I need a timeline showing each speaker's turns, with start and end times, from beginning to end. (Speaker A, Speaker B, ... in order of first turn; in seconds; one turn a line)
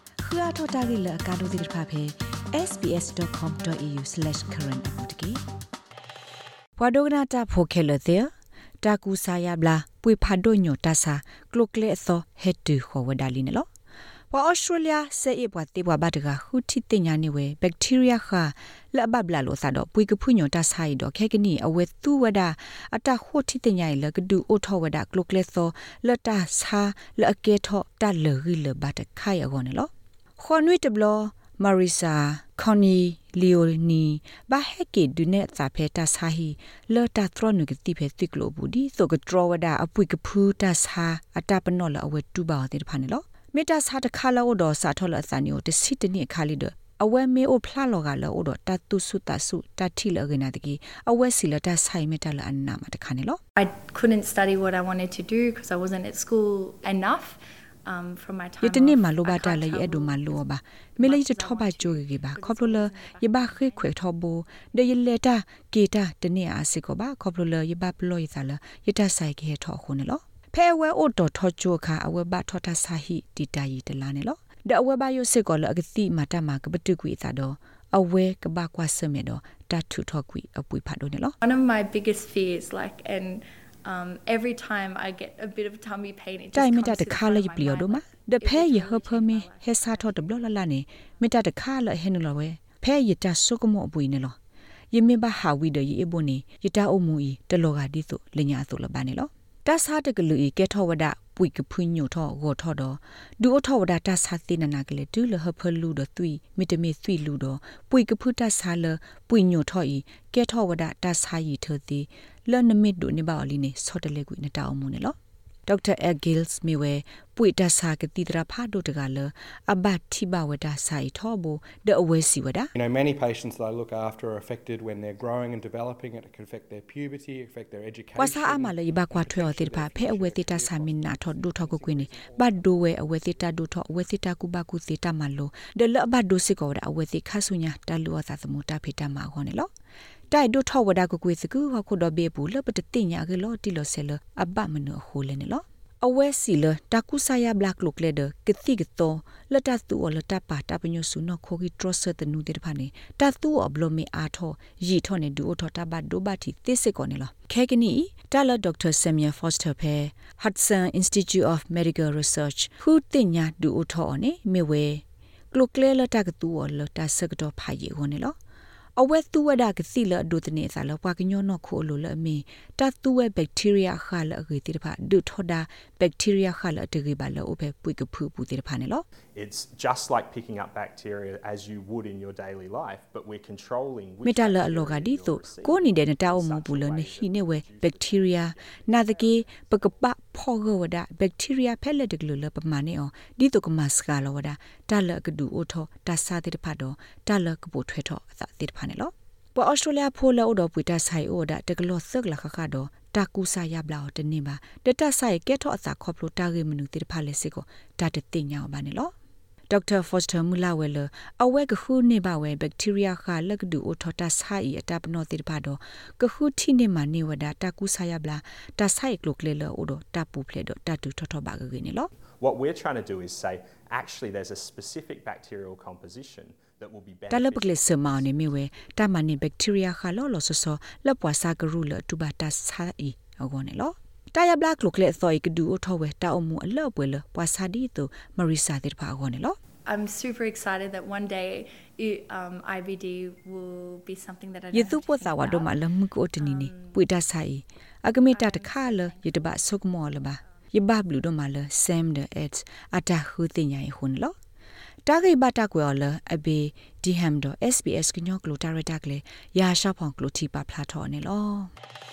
Speaker A: 0.2-5.4
Speaker A: 6.8-8.3
Speaker A: 8.8-13.7
Speaker A: 14.3-53.4
Speaker B: 53.6-64.0
Speaker A: 58.6-81.3
Speaker B: 81.4-90.5
Speaker A: 86.5-94.4
Speaker A: 94.9-122.7
Speaker C: 122.8-132.8
Speaker A: 128.2-139.7
Speaker A: 140.3-168.4
Speaker A: 169.0-179.0
Speaker D: 179.3-190.0
Speaker A: 184.2-209.1
Speaker A: 209.7-222.1
Speaker D: 222.4-228.6
Speaker A: 227.3-239.6
Speaker B: 239.8-245.8
Speaker A: 244.7-254.3
Speaker B: 246.4-247.0
Speaker B: 248.3-250.7
Speaker A: 255.1-261.7